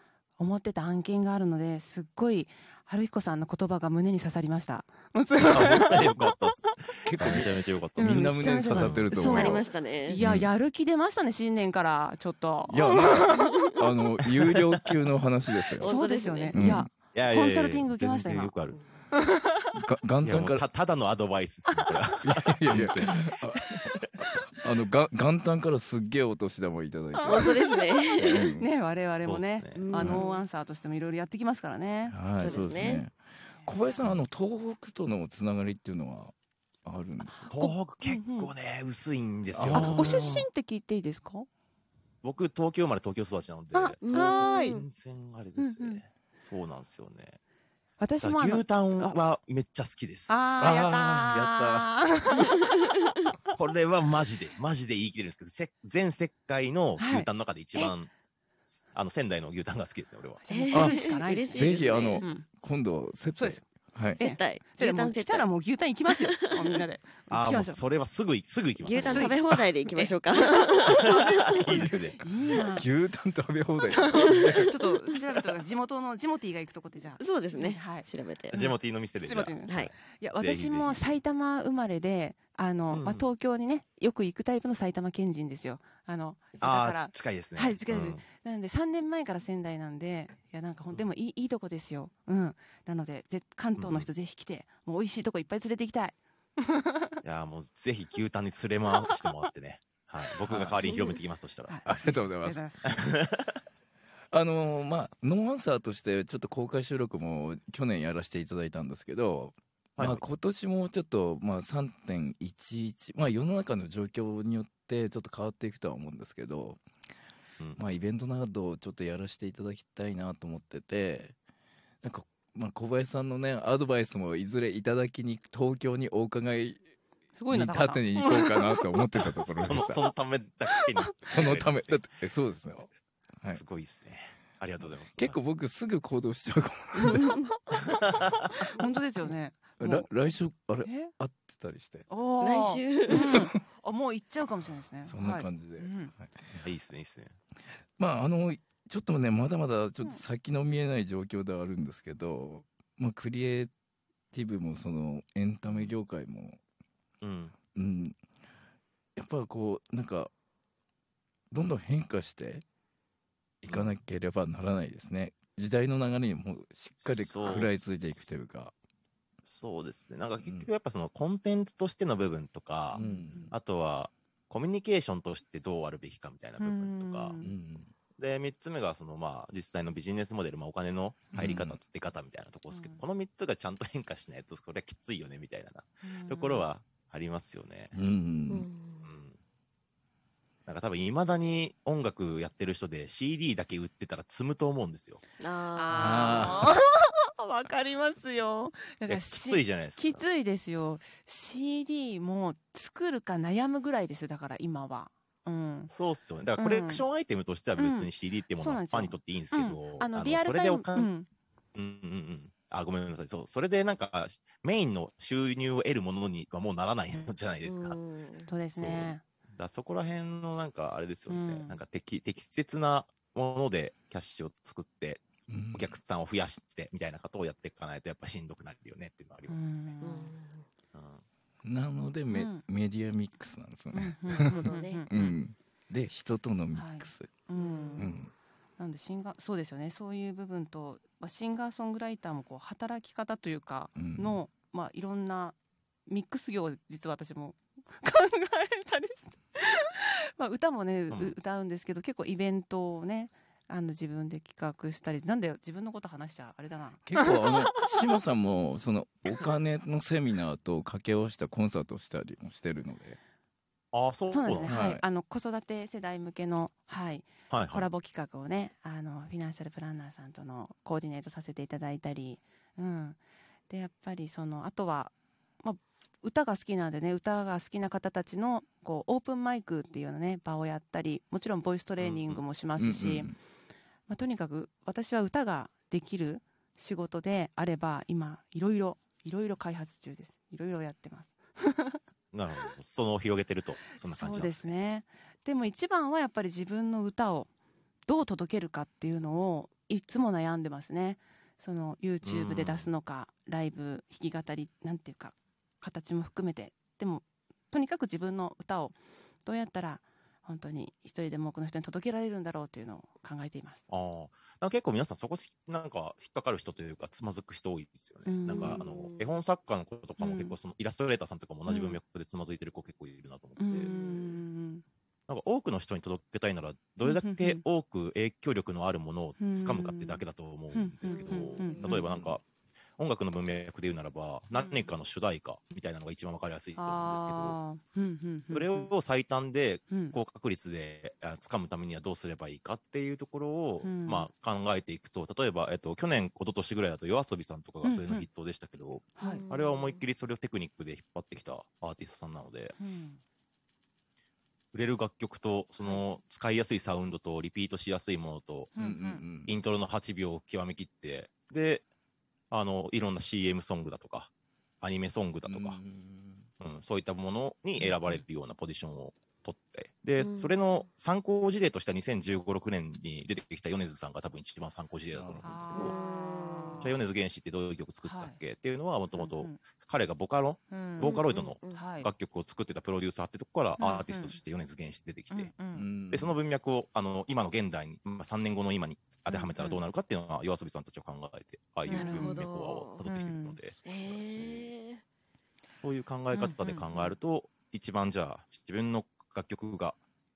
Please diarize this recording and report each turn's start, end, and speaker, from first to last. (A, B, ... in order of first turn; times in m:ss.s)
0:00.4-0:06.2 A
0:05.5-0:09.2 B
0:07.0-0:09.6 C
0:07.4-0:13.5 A
0:09.1-0:10.2 D
0:10.2-0:10.5 C
0:12.7-0:15.9 C
0:15.8-0:18.5 A
0:15.8-0:16.6 D
0:16.5-0:16.9 C
0:17.1-0:18.8 B
0:19.1-0:19.6 A
0:19.7-0:20.6 C
0:20.2-0:23.6 B
0:22.2-0:27.5 C
0:27.2-0:27.5 A
0:27.3-0:28.5 D
0:28.2-0:28.7 C
0:28.5-0:32.6 A
0:29.2-0:29.8 B
0:29.7-0:30.4 D
0:29.9-0:30.2 C
0:32.1-0:37.5 C
0:32.4-0:33.0 D
0:33.6-0:34.0 A
0:37.5-0:40.4 B
0:37.5-0:38.5 A
0:39.5-0:40.4 C
0:39.7-0:41.5 A
0:42.2-0:47.4 B
0:43.7-0:44.8 A
0:44.0-0:44.8 D
0:45.6-0:46.0 A
0:48.0-0:49.2 A
0:48.2-0:51.8 B
0:50.3-0:52.7 A
0:50.6-0:51.8 C
0:53.5-0:58.1 B
0:57.0-0:57.9 A
0:58.9-1:00.4 B
1:00.4-1:02.5 A
1:00.5-1:02.2 D
1:01.5-1:04.2 C
1:03.4-1:03.6 A
1:04.2-1:07.8 A
1:04.2-1:05.5 D
1:06.1-1:06.4 D
1:07.3-1:09.4 B
1:08.8-1:11.6 D
1:08.9-1:11.1 A
1:10.9-1:12.2 B
1:12.2-1:12.9 A
1:12.7-1:14.7 C
1:13.9-1:37.2 A
1:17.2-1:18.6 D
1:18.5-1:21.1 B
1:19.7-1:19.9 D
1:22.9-1:23.3 B
1:26.6-1:28.2 B
1:33.8-1:34.1 B
1:37.2-1:41.8 B
1:40.5-1:40.8 C
1:41.7-1:42.8 A
1:41.8-1:42.7 C
1:42.9-1:43.5 B
1:44.3-1:56.8 C
1:50.0-1:50.2 B
1:57.8-2:01.4 C
2:02.0-2:06.8 C
2:07.4-2:08.8 A
2:07.5-2:10.0 C
2:09.6-2:12.0 B
2:11.2-2:12.9 C
2:13.5-2:15.4 B
2:15.2-2:17.4 C
2:18.7-2:20.1 A
2:19.8-2:22.0 C
2:20.8-2:21.1 A
2:22.1-2:26.1 A
2:22.4-2:23.4 D
2:25.0-2:26.5 C
2:26.5-2:27.4 B
2:28.0-2:33.7 C
2:34.3-2:36.6 C
2:35.7-2:36.0 B
2:37.2-2:37.5 B
2:37.8-2:38.2 C
2:39.2-2:40.3 C
2:41.5-2:42.6 C
2:43.6-2:48.7 C
2:43.7-2:44.0 B
2:47.1-2:48.3 B
2:49.4-2:57.4 B
2:50.4-2:50.7 C
2:52.9-2:53.5 C
2:53.0-2:53.5 A
2:56.6-2:57.5 A
2:57.4-2:57.9 C
2:58.2-3:08.0 B
3:01.4-3:01.8 C
3:02.7-3:03.0 A
3:06.0-3:06.7 A
3:07.9-3:08.7 C
3:08.5-3:09.1 D
3:09.0-3:09.4 B
3:10.7-3:15.2 B
3:15.4-3:16.5 D
3:15.8-3:25.9 A
3:15.9-3:16.7 C
3:19.1-3:20.2 B
3:25.9-3:31.1 B
3:26.6-3:27.0 A
3:27.8-3:31.3 A
3:31.8-3:38.0 B
3:37.6-3:38.5 D
3:38.5-3:39.2 A
3:38.8-3:49.7 B
3:41.3-3:41.8 A
3:45.5-3:46.0 C
3:49.5-3:50.4 A
3:50.0-3:50.7 D
3:50.9-3:51.2 B
3:51.6-3:57.3 C
3:52.3-3:52.6 A
3:53.9-3:55.1 A
3:54.5-3:55.1 D
3:56.7-3:58.2 A
3:57.6-3:58.1 D
3:58.0-3:58.3 C
3:58.8-4:17.8 A
4:04.0-4:04.4 C
4:11.1-4:11.4 B
4:17.0-4:23.2 C
4:23.9-4:24.9 B
4:24.3-4:43.3 A
4:24.6-4:25.0 C
4:27.5-4:27.9 B
4:42.0-4:42.4 B
4:42.8-4:43.4 C
4:44.1-4:52.0 A
4:52.3-4:54.7 B
4:54.0-4:57.5 A
4:58.1-5:13.8 A
5:02.2-5:02.9 B
5:13.9-5:23.9 B
5:18.2-5:18.8 A
5:18.5-5:19.4 D
5:20.2-5:20.6 A
5:21.7-5:22.0 A
5:23.6-5:24.8 A
5:23.8-5:24.4 D
5:25.3-5:32.4 B
5:27.0-5:27.6 A
5:29.4-5:32.3 A
5:31.0-5:32.1 D
5:33.0-5:37.6 B
5:34.6-5:34.8 A
5:36.8-5:38.9 A
5:38.5-5:52.8 B
5:39.9-5:40.2 A
5:43.8-5:44.3 A
5:47.8-5:48.3 A
5:49.2-5:49.4 A
5:49.2-5:50.0 D
5:52.8-5:53.2 A
5:54.7-5:58.7 B
5:58.8-5:59.2 A
5:58.8-5:59.6 C
5:59.4-6:01.8 B
6:02.5-6:05.8 B
6:05.4-6:06.5 C
6:06.6-6:16.0 B
6:10.2-6:10.5 D
6:15.1-6:15.6 C
6:15.4-6:16.0 A
6:15.8-6:16.9 D
6:16.8-6:25.5 B
6:18.0-6:18.4 A
6:19.2-6:19.6 A
6:20.7-6:21.2 A
6:21.0-6:21.8 D
6:21.7-6:22.1 A
6:23.8-6:24.4 A
6:25.3-6:25.9 A
6:25.7-6:26.4 C
6:26.1-6:34.7 B
6:29.3-6:29.8 A
6:31.9-6:32.4 A
6:31.9-6:33.1 D
6:33.0-6:33.6 A
6:33.8-6:35.0 D
6:35.8-6:40.0 B
6:36.3-6:36.9 A